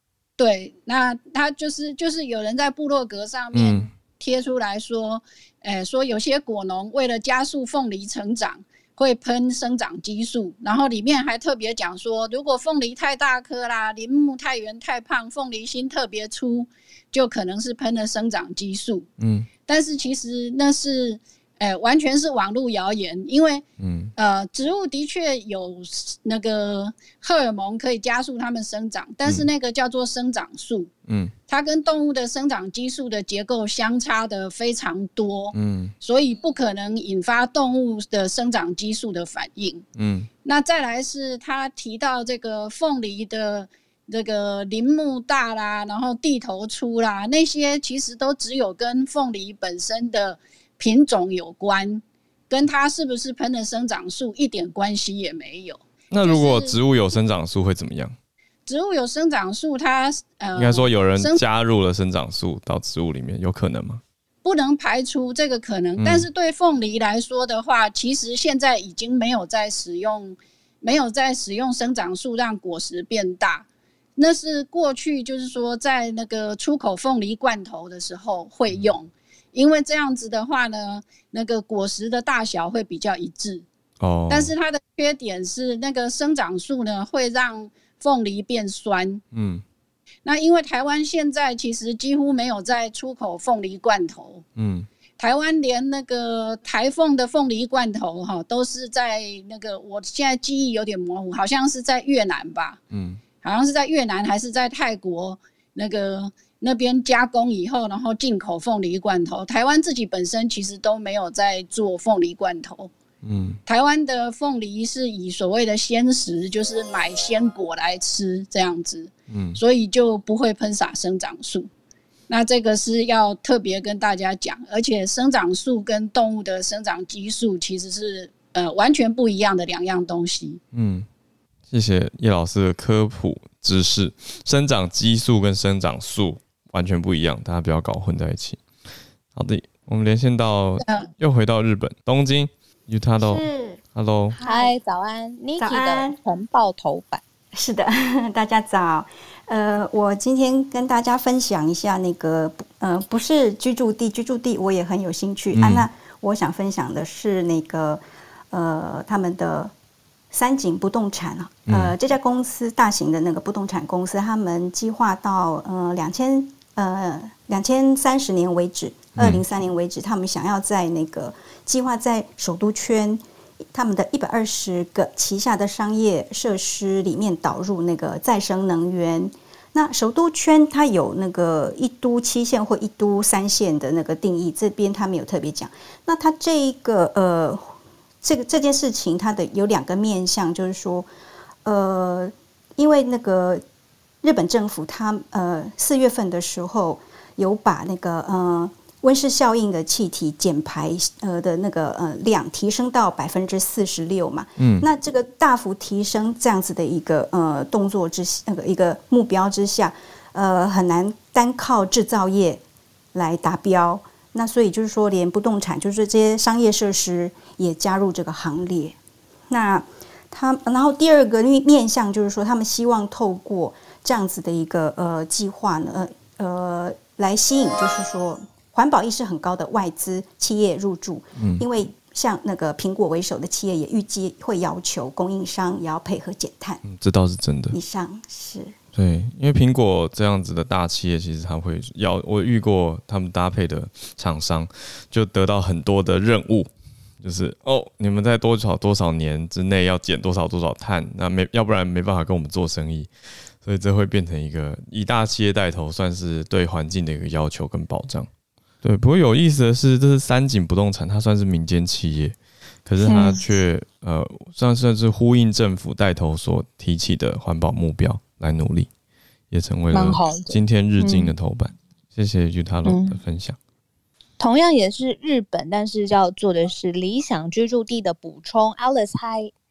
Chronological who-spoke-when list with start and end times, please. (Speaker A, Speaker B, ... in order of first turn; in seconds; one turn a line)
Speaker A: 0.4-19.1
Speaker B: 3.5-3.9
Speaker B: 19.2-19.5
Speaker A: 19.7-23.6
Speaker B: 23.8-24.1
Speaker A: 24.2-30.9
Speaker B: 31.1-31.3
Speaker A: 31.5-39.8
Speaker B: 35.5-35.9
Speaker B: 39.9-40.3
Speaker A: 40.4-56.8
Speaker B: 56.1-58.1
Speaker A: 58.7-61.4
Speaker B: 60.5-64.0
Speaker A: 64.4-83.6
Speaker B: 66.0-66.3
Speaker B: 78.7-79.0
Speaker B: 84.0-84.5
Speaker A: 84.3-89.2
Speaker B: 89.3-89.6
Speaker A: 90.2-94.4
Speaker B: 94.5-94.9
Speaker A: 95.2-102.8
Speaker B: 102.9-103.2
Speaker A: 103.4-112.9
Speaker B: 113.2-113.6
Speaker A: 113.7-121.7
Speaker B: 119.3-119.6
Speaker A: 122.3-130.6
Speaker B: 130.7-131.1
Speaker B: 131.7-138.6
Speaker B: 139.3-144.3
Speaker C: 143.2-143.8
Speaker C: 144.3-144.7
Speaker D: 144.4-147.2
Speaker C: 145.6-146.2
Speaker C: 147.6-159.7
Speaker B: 155.5-155.9
Speaker C: 160.3-191.1
Speaker B: 161.7-161.9
Speaker B: 169.2-169.4
Speaker C: 191.6-193.6
Speaker C: 194.2-212.6
Speaker B: 204.6-204.8
Speaker C: 213.1-219.0
Speaker C: 219.5-236.8
Speaker B: 231.4-231.6
Speaker B: 236.8-237.7
Speaker C: 237.7-238.7
Speaker B: 238.9-246.7
Speaker B: 247.2-253.1
Speaker B: 253.6-258.3
Speaker B: 258.8-268.9
Speaker D: 263.1-263.4
Speaker B: 269.5-273.6
Speaker D: 269.9-271.3
Speaker D: 272.8-273.2
Speaker D: 274.4-279.5